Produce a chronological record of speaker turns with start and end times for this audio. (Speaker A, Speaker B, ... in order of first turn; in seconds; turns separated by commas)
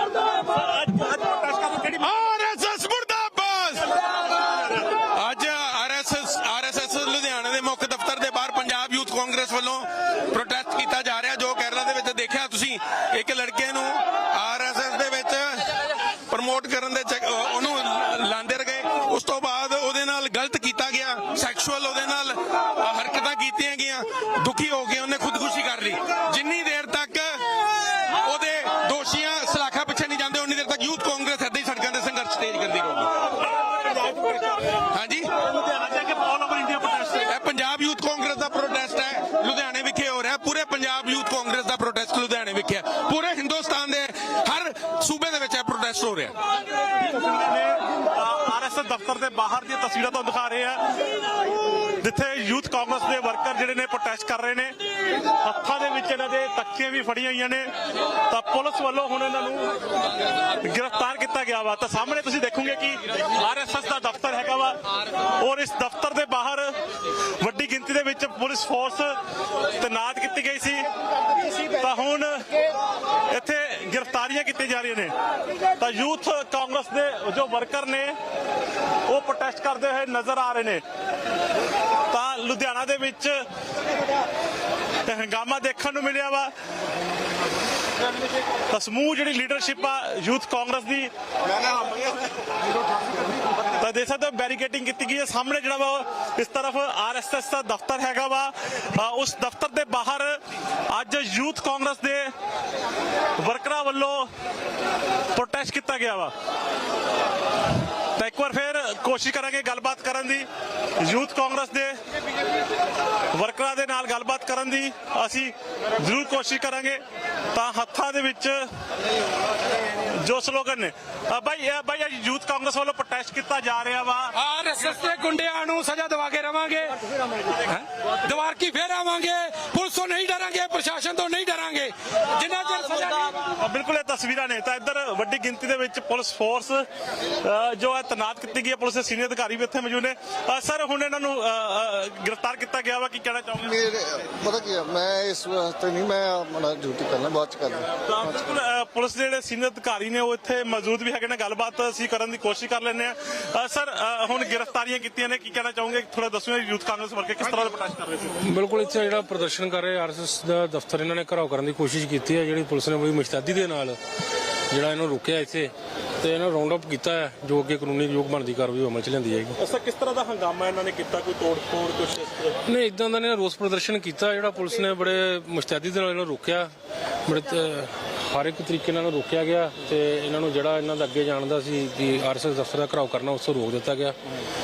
Speaker A: 0.3-2.1, Speaker B: 2.0-4.0, Speaker B: 5.0-27.5, Speaker B: 28.1-33.1, Speaker A: 33.6-34.7, Speaker B: 34.9-35.3, Speaker A: 35.4-37.3, Speaker B: 37.3-46.3, Speaker A: 47.0-50.8, Speaker A: 52.0-54.7, Speaker A: 55.4-57.7, Speaker A: 58.3-59.7, Speaker A: 60.6-64.8, Speaker A: 65.4-66.8, Speaker A: 67.4-69.2, Speaker A: 69.8-70.9, Speaker A: 71.7-72.5, Speaker A: 73.3-75.1, Speaker A: 75.8-78.2, Speaker A: 79.1-80.8, Speaker A: 82.1-83.4, Speaker A: 85.1-86.5, Speaker A: 88.7-91.1, Speaker A: 93.8-102.3, Speaker A: 103.4-104.3, Speaker A: 105.3-106.3, Speaker A: 108.2-110.5, Speaker A: 111.0-112.0, Speaker A: 113.3-117.0, Speaker A: 117.5-118.6, Speaker A: 120.1-124.3, Speaker C: 124.4-127.0, Speaker C: 127.6-133.3, Speaker A: 133.5-136.8, Speaker A: 137.4-143.8, Speaker D: 143.7-147.9, Speaker A: 148.0-158.4, Speaker E: 158.4-164.0, Speaker E: 164.7-169.6, Speaker A: 169.6-172.6, Speaker E: 172.7-176.7, Speaker E: 177.2-184.2